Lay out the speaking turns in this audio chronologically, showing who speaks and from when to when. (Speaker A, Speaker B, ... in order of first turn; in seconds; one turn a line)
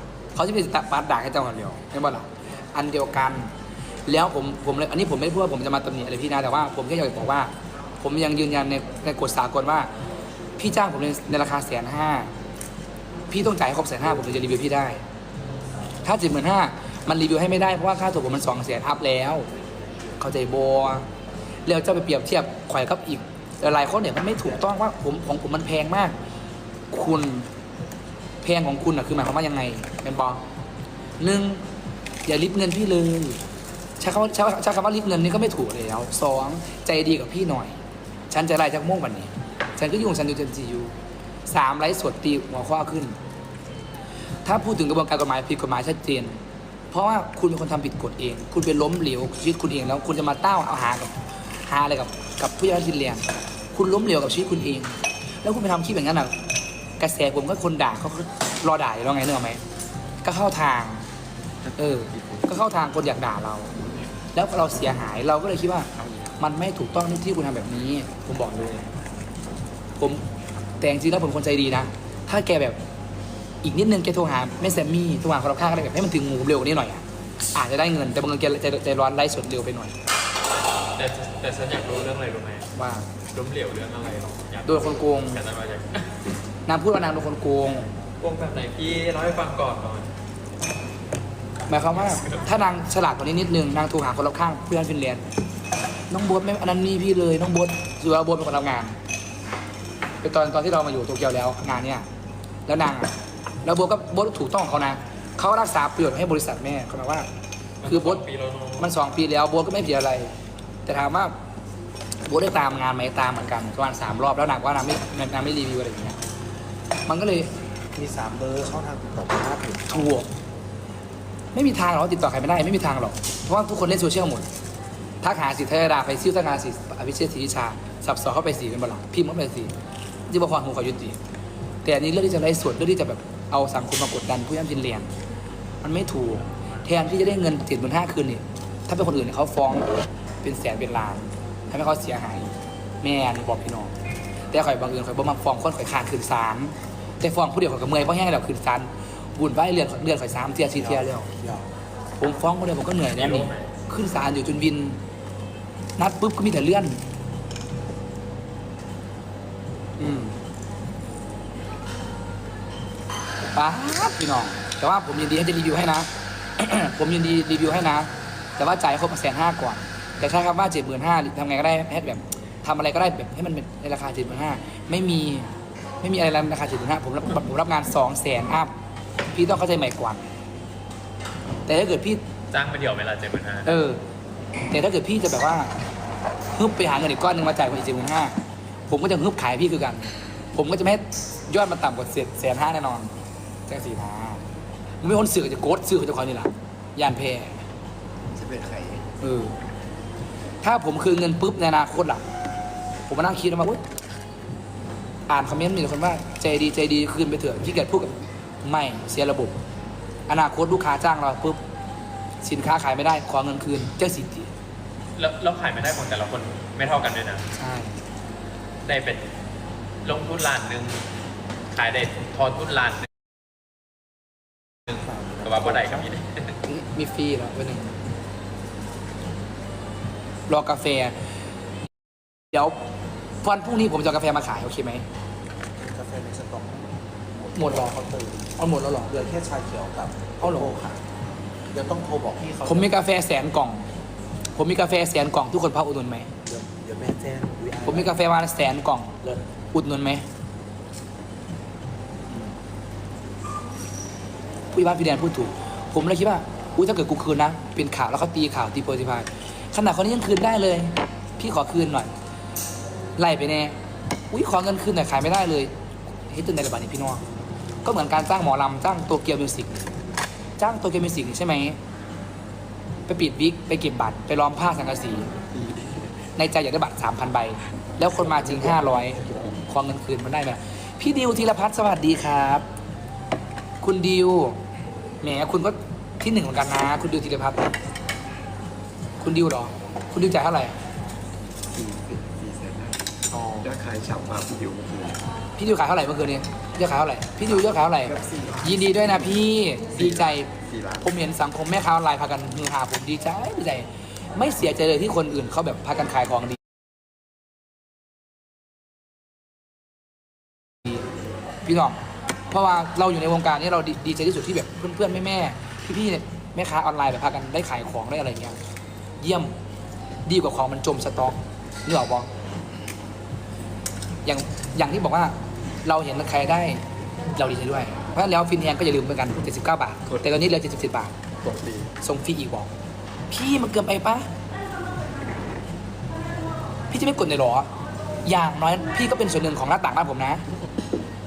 Speaker A: 0.3-3.5
Speaker A: 4.1-9.9
Speaker A: 10.6-12.3
Speaker A: 13.3-15.0
Speaker A: 16.0-19.5
Speaker A: 20.2-21.1
Speaker A: 21.7-26.1
Speaker A: 26.9-27.5
Speaker A: 28.4-30.4
Speaker A: 31.2-31.6
Speaker A: 32.3-33.4
Speaker A: 34.0-37.8
Speaker A: 38.3-40.9
Speaker A: 41.5-43.2
Speaker A: 44.5-46.4
Speaker A: 46.9-56.3
Speaker A: 57.0-59.6
Speaker A: 60.2-61.0
Speaker B: 61.7-62.5
Speaker A: 61.8-63.7
Speaker A: 64.3-68.9
Speaker A: 70.0-70.2
Speaker A: 70.8-72.8
Speaker A: 73.6-77.0
Speaker A: 77.5-79.9
Speaker C: 81.0-82.7
Speaker A: 82.8-83.1
Speaker C: 83.3-86.1
Speaker A: 84.7-85.4
Speaker A: 86.7-87.9
Speaker C: 88.2-90.1
Speaker A: 91.7-95.2
Speaker A: 96.1-99.0
Speaker A: 100.2-102.1
Speaker A: 102.7-103.1
Speaker A: 103.6-107.3
Speaker C: 107.8-108.9
Speaker A: 107.8-108.3
Speaker A: 108.8-110.3
Speaker A: 110.9-111.3
Speaker A: 112.3-116.2
Speaker A: 117.1-117.5
Speaker D: 118.0-120.2
Speaker A: 119.9-120.3
Speaker A: 121.5-124.5
Speaker A: 125.2-129.7
Speaker A: 130.3-131.2
Speaker A: 131.8-135.1
Speaker A: 135.8-143.9
Speaker A: 144.5-151.3
Speaker D: 150.7-151.7
Speaker A: 152.2-155.0
Speaker C: 153.1-153.7
Speaker A: 156.0-157.0
Speaker A: 160.0-160.4
Speaker A: 163.5-178.7
Speaker A: 179.3-180.3
Speaker A: 181.7-182.2
Speaker C: 182.5-183.8
Speaker A: 183.7-184.0
Speaker A: 184.7-185.7
Speaker A: 186.5-188.3
Speaker A: 188.9-193.1
Speaker A: 193.7-194.4
Speaker A: 195.0-197.6
Speaker B: 198.3-199.1
Speaker A: 199.2-199.6
Speaker A: 200.6-202.2
Speaker A: 203.1-203.8
Speaker A: 205.3-209.6
Speaker A: 210.3-211.6
Speaker A: 212.4-214.5
Speaker C: 215.2-217.4
Speaker A: 217.6-218.0
Speaker C: 218.8-219.3
Speaker C: 220.0-221.1
Speaker C: 221.7-223.1
Speaker C: 224.9-226.5
Speaker D: 224.9-226.1
Speaker A: 226.7-227.9
Speaker A: 230.5-231.2
Speaker A: 232.5-232.8
Speaker A: 233.4-235.0
Speaker D: 235.8-237.0
Speaker A: 237.5-238.0
Speaker D: 237.6-241.0
Speaker A: 238.6-239.1
Speaker A: 240.4-240.8
Speaker D: 241.7-242.9
Speaker A: 242.7-243.9
Speaker A: 244.6-246.3
Speaker D: 246.5-248.2
Speaker A: 247.8-250.2
Speaker A: 254.7-262.1
Speaker A: 263.2-263.8
Speaker A: 264.3-265.7
Speaker A: 266.3-267.2
Speaker A: 267.8-269.9
Speaker A: 270.6-271.8
Speaker A: 273.1-275.3
Speaker A: 276.4-282.7
Speaker A: 283.8-284.6
Speaker A: 285.2-287.7
Speaker A: 289.2-290.8
Speaker B: 291.7-295.3
Speaker A: 293.3-293.7
Speaker A: 295.6-306.6
Speaker B: 298.0-301.1
Speaker A: 311.6-312.0
Speaker A: 312.5-318.6
Speaker A: 319.2-319.5
Speaker A: 320.3-322.3
Speaker A: 324.2-326.8
Speaker A: 327.4-331.1
Speaker B: 331.4-331.9
Speaker A: 332.0-332.7
Speaker A: 333.3-334.3
Speaker A: 336.9-337.7
Speaker A: 338.2-340.4